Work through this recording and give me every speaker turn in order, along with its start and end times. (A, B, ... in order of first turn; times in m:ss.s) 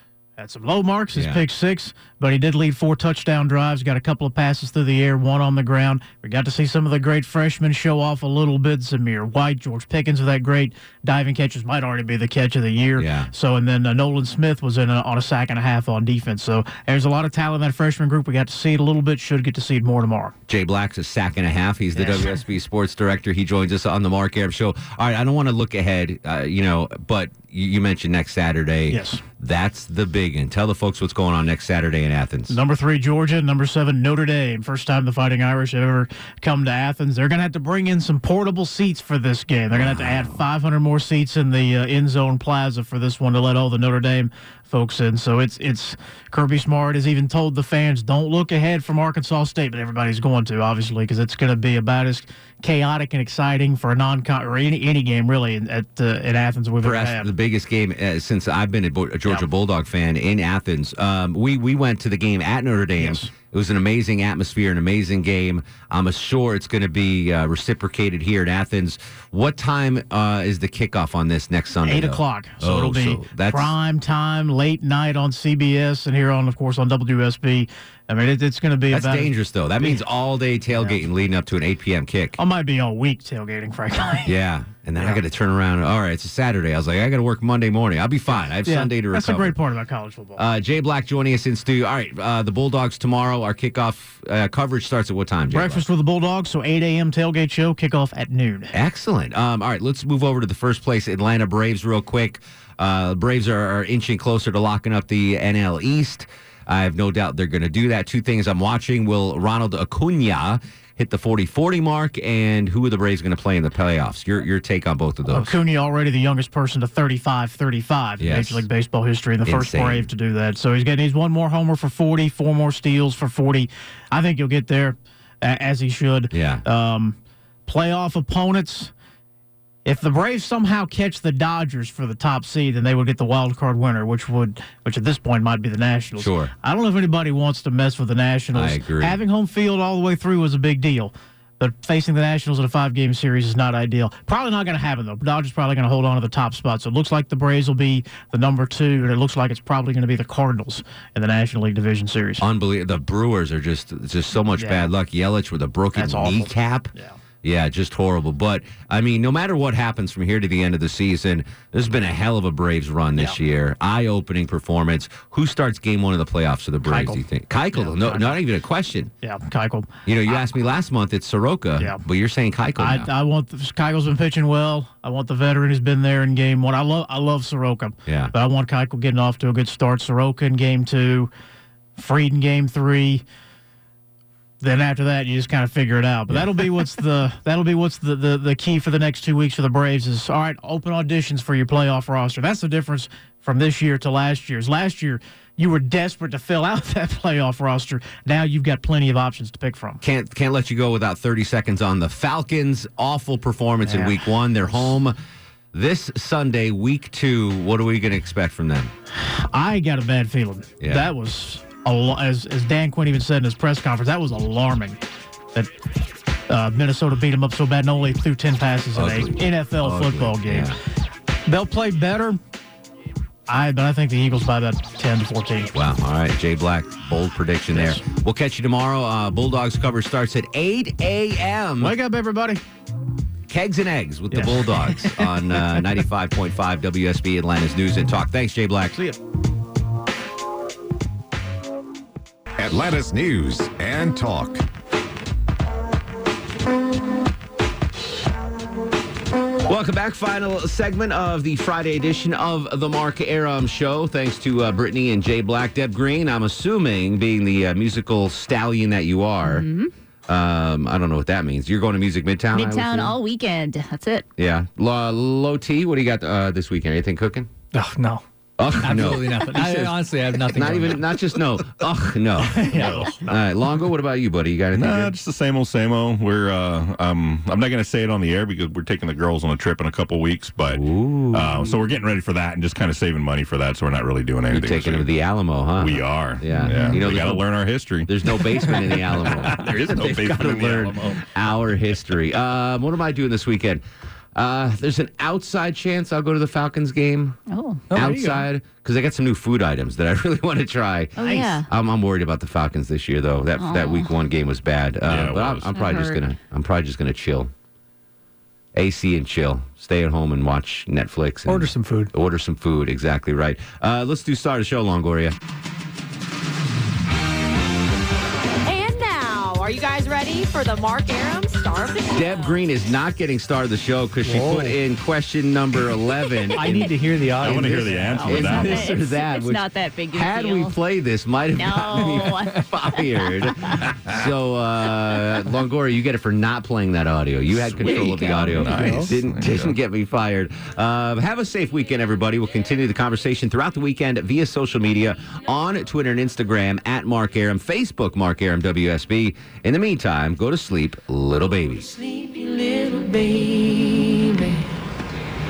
0:00.4-0:20.3 A
0:01.1-0:01.4 B
0:13.0-0:13.3 B
0:20.5-0:32.6 B
0:21.9-0:22.4 A
0:28.9-0:29.2 A
0:32.5-0:57.3 A
0:39.7-0:40.4 B
0:56.8-1:13.7 B
1:03.0-1:03.3 A
1:11.8-1:20.0 A
1:18.9-1:22.4 B
1:22.4-1:24.3 A
1:24.2-1:29.6 B
1:25.0-1:25.2 A
1:28.6-1:30.4 A
1:30.4-1:35.8 B
1:35.5-1:38.7 A
1:38.7-1:55.6 B
1:55.3-2:08.9 A
1:58.2-1:58.7 B
1:59.4-2:00.1 B
2:06.3-2:06.6 B
2:09.8-2:32.4 A
2:16.2-2:16.5 B
2:18.5-2:19.2 B
2:32.4-2:36.9 B
2:34.6-2:34.9 A
2:36.0-2:37.2 A
2:37.4-2:49.1 B
2:46.8-2:47.2 A
2:47.7-2:48.4 A
2:49.2-2:49.9 A
2:50.0-2:53.1 B
2:52.8-3:01.3 A
2:58.0-2:58.3 B
3:02.0-3:03.2 A
3:04.6-3:20.0 A
3:20.0-3:25.2 B
3:23.8-3:24.2 A
3:25.7-3:28.9 B
3:29.5-3:35.0 A
3:30.8-3:31.1 B
3:36.5-3:40.8 A
3:38.9-3:40.8 B
3:41.5-3:42.4 A
3:43.5-3:45.7 A
3:45.7-3:52.0 B
3:47.7-3:48.0 A
3:51.8-3:52.6 A
3:53.5-3:59.0 B
3:54.3-3:55.9 A
4:02.6-4:04.6 C
4:09.7-4:19.6 B
4:19.4-4:19.9 D
4:20.3-4:23.1 B
4:22.5-4:24.2 D
4:24.4-4:27.5 B
4:27.7-4:28.2 E
4:28.6-4:35.1 B
4:28.8-4:31.0 E
4:32.4-4:33.1 E
4:34.7-4:45.1 F
4:40.6-4:41.8 B
4:44.5-4:47.4 B
4:45.8-4:51.3 F
4:48.1-4:53.8 B
4:54.3-4:57.4 B
4:57.5-4:57.9 D
4:57.9-4:58.4 E
4:57.9-5:07.5 B
5:01.2-5:01.7 D
5:03.6-5:04.1 D
5:05.1-5:05.8 F
5:05.8-5:06.2 D
5:08.7-5:15.4 B
5:11.4-5:12.1 E
5:18.7-5:22.4 G
5:22.1-5:52.0 B
5:24.2-5:24.8 E
5:26.6-5:28.8 E
5:27.4-5:29.0 F
5:28.2-5:29.6 G
5:29.0-5:30.7 D
5:30.1-5:30.7 G
5:31.6-5:32.3 D
5:31.6-5:32.5 G
5:37.6-5:39.7 F
5:38.0-5:38.9 D
5:38.7-5:39.1 E